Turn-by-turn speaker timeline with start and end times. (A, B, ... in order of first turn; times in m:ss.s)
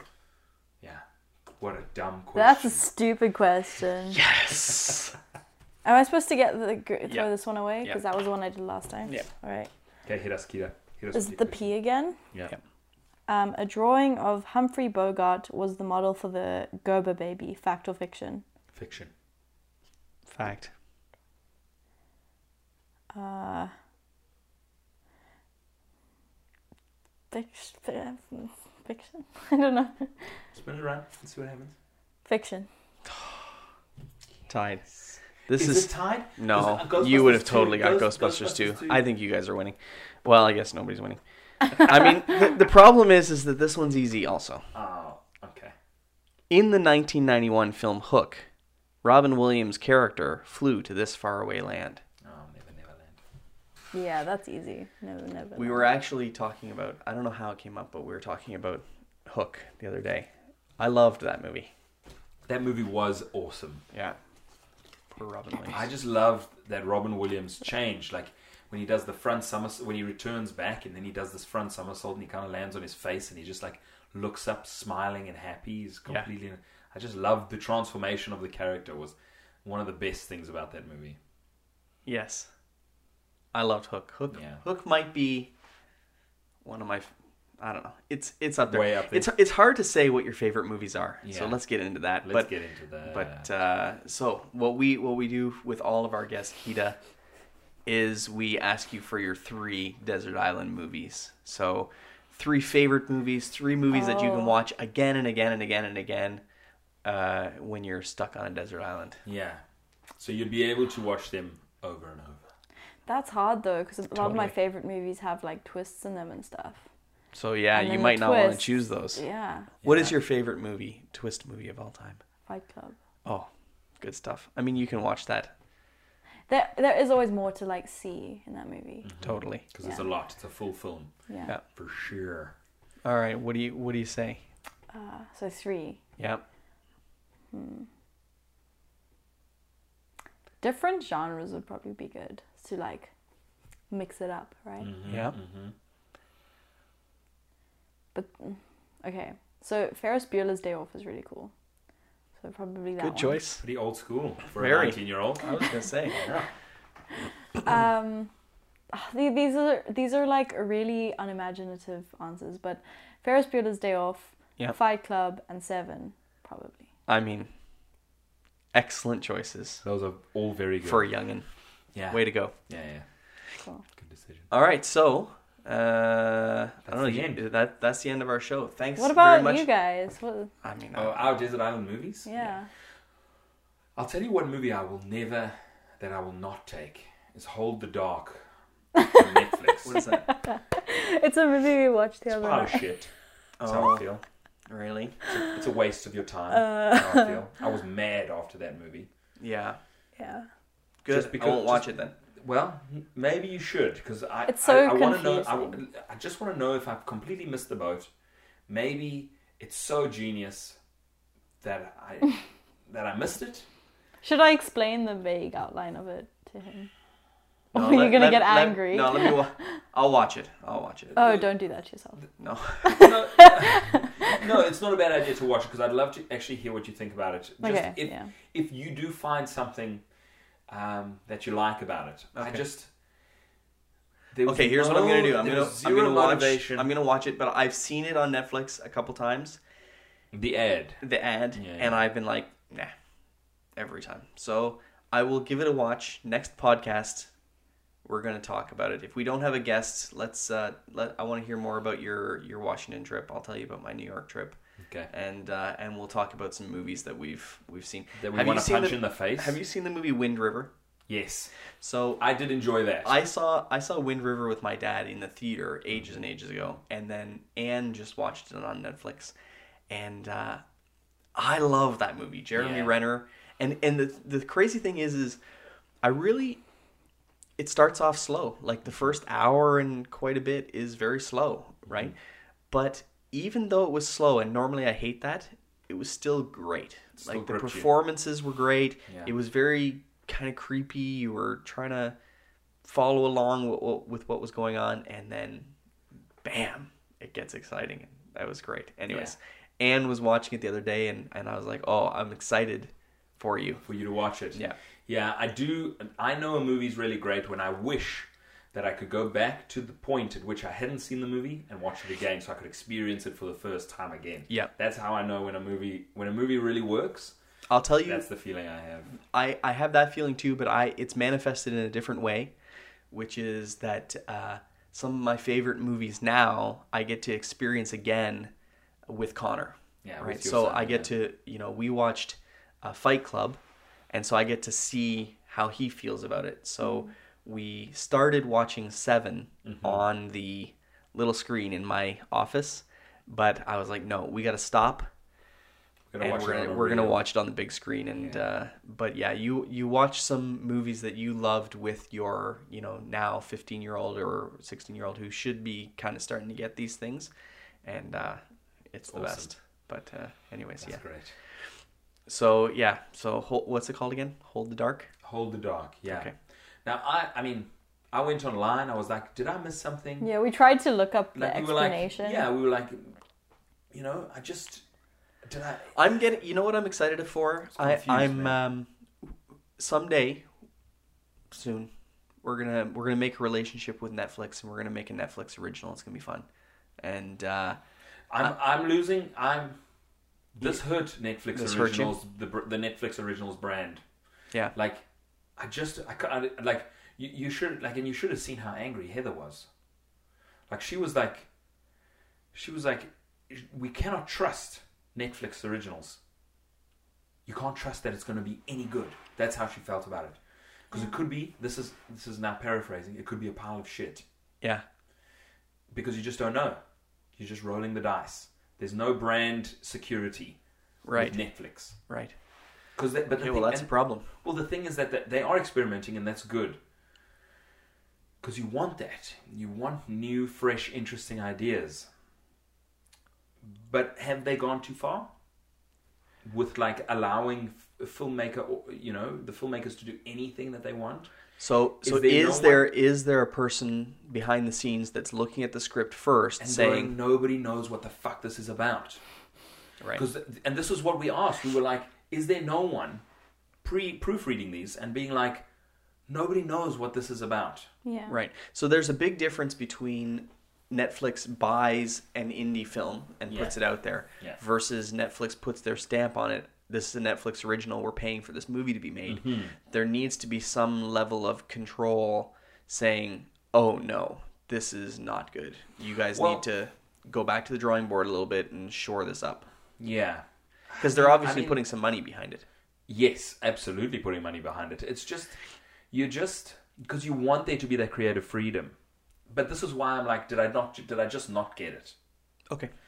0:01.6-0:02.8 A
0:02.4-0:04.2 B
0:04.1-0:05.1 C
0:05.8-0:09.7 B
0:10.0-0:11.6 A
0:11.1-0:12.2 B
0:13.3-0:18.4 B
0:18.7-0:19.1 A
0:20.3-0:20.7 C
0:23.1-0:23.7 B
0:27.3-0:30.2 B
0:30.5-0:31.7 A
0:32.2-0:32.7 B
0:33.1-0:33.5 C
0:34.5-0:34.9 C
0:35.5-0:41.2 C
0:35.5-0:39.0 A
0:41.7-0:44.6 C
0:44.7-0:45.7 A
0:46.5-0:48.5 C
0:49.0-0:52.0 C
0:52.2-0:53.2 A
0:53.9-0:55.9 B
0:55.6-1:01.7 C
1:02.5-1:03.8 A
1:05.1-1:05.9 C
1:05.7-1:21.2 A
1:22.1-1:22.5 C
1:23.5-1:25.5 C
1:24.3-1:24.6 A
1:26.6-1:32.5 C
1:28.7-1:29.3 A
1:31.2-1:31.6 A
1:32.2-1:33.5 A
1:33.0-1:37.0 C
1:37.9-1:46.4 C
1:43.9-1:44.6 B
1:47.0-1:49.2 C
1:49.2-1:49.6 A
1:50.2-1:52.4 A
1:53.1-1:56.8 B
1:54.2-1:54.5 C
1:57.3-1:59.2 C
1:57.7-1:59.7 B
1:59.8-2:00.2 A
1:59.8-2:02.2 C
2:02.5-2:03.0 B
2:04.0-2:05.5 C
2:06.5-2:09.1 B
2:09.0-2:11.1 A
2:09.2-2:09.6 C
2:11.3-2:11.5 B
2:11.7-2:12.5 A
2:13.0-2:14.4 C
2:14.9-2:16.0 B
2:16.2-2:16.4 C
2:17.5-2:17.9 B
2:20.6-2:23.1 B
2:23.9-2:24.9 B
2:24.8-2:25.7 A
2:25.1-2:25.4 C
2:28.1-2:31.5 B
2:32.4-2:33.4 B
2:33.0-2:33.6 C
2:33.6-2:36.5 A
2:34.6-2:36.2 C
2:37.6-2:38.3 B
2:38.9-2:46.8 B
2:47.1-2:47.5 C
2:48.7-2:49.8 C
2:49.8-2:51.1 A
2:50.8-2:51.5 C
2:51.9-2:53.0 A
2:52.1-2:52.5 C
2:54.0-2:54.5 A
2:54.5-2:59.7 C
2:56.9-2:57.4 A
2:59.0-3:00.5 B
3:00.6-3:01.3 C
3:01.0-3:02.3 A
3:02.3-3:02.7 B
3:04.0-3:08.4 A
3:09.0-3:09.2 B
3:09.1-3:10.0 A
3:09.8-3:10.3 C
3:10.3-3:12.9 B
3:12.3-3:13.1 A
3:13.6-3:14.1 C
3:13.6-3:14.2 A
3:14.7-3:15.4 C
3:15.4-3:19.1 A
3:16.5-3:17.4 B
3:19.4-3:19.8 C
3:20.2-3:20.5 B
3:21.0-3:22.1 C
3:21.1-3:28.1 A
3:24.5-3:25.8 B
3:28.7-3:30.8 A
3:31.6-3:33.7 A
3:34.2-3:36.9 B
3:37.7-3:39.8 B
3:37.7-3:41.4 C
3:41.2-3:44.4 B
3:42.4-3:43.1 C
3:42.9-3:50.0 A
3:47.6-3:48.3 B
3:50.7-3:52.9 A
3:52.4-3:52.6 C
3:54.3-3:56.9 A
3:54.5-3:59.6 C
4:00.3-4:01.0 A
4:01.0-4:02.9 C
4:01.5-4:02.0 A
4:03.8-4:07.3 C
4:08.0-4:14.6 C
4:14.8-4:15.1 A
4:15.1-4:20.7 C
4:18.2-4:19.6 A
4:21.1-4:21.5 A
4:21.8-4:22.2 C
4:22.2-4:23.2 A
4:23.0-4:29.3 C
4:29.9-4:30.6 C
4:31.4-4:35.4 C
4:32.6-4:33.0 A
4:36.0-4:36.6 C
4:37.6-4:42.2 C
4:42.7-4:52.2 C
4:47.2-4:47.9 A
4:52.8-4:55.7 C
4:56.4-5:03.9 C
4:59.1-4:59.4 A
5:03.9-5:17.4 A
5:17.7-5:18.3 C
5:18.0-5:19.1 A
5:19.1-5:22.5 C
5:23.1-5:28.5 C
5:29.1-5:33.6 C
5:30.0-5:31.1 A
5:34.1-5:45.1 C
5:36.8-5:37.1 B
5:39.6-5:40.0 A
5:46.1-5:47.2 A
5:46.2-5:57.3 C
5:48.2-5:48.4 A
5:57.8-6:01.0 C
5:59.1-5:59.5 A
6:00.8-6:01.3 A
6:02.3-6:05.1 C
6:05.2-6:06.3 A
6:06.1-6:06.3 C
6:06.8-6:10.3 A
6:10.2-6:12.5 B
6:11.4-6:13.2 A
6:13.9-6:14.8 A
6:15.4-6:15.9 A
6:15.9-6:20.4 C
6:17.8-6:18.6 A
6:21.5-6:21.9 C
6:22.4-6:26.4 C
6:27.0-6:27.8 C
6:28.3-6:29.8 A
6:30.5-6:34.0 A
6:31.5-6:32.1 C
6:34.7-6:35.0 A
6:35.6-6:39.7 A
6:40.7-6:41.5 A
6:42.5-6:46.2 A
6:47.5-6:50.4 A
6:50.9-6:54.2 A
6:55.9-6:56.8 A
6:57.4-7:00.6 A
7:01.0-7:02.4 C
7:01.2-7:02.0 A
7:03.0-7:06.8 A
7:03.3-7:04.3 C
7:08.4-7:12.1 A
7:13.6-7:15.3 A
7:16.4-7:21.3 A
7:21.6-7:27.1 C
7:22.0-7:22.9 A
7:26.6-7:29.2 A
7:30.0-7:30.2 C
7:30.1-7:33.2 A
7:33.8-7:35.6 A
7:36.3-7:37.9 A
7:38.0-7:38.4 B
7:38.3-7:59.7 C
7:43.5-7:43.8 A
7:49.3-7:49.7 A
7:56.3-7:56.6 A
8:00.0-8:01.8 A
8:01.0-8:02.6 C
8:03.1-8:05.6 A
8:06.1-8:09.0 A
8:09.5-8:12.2 A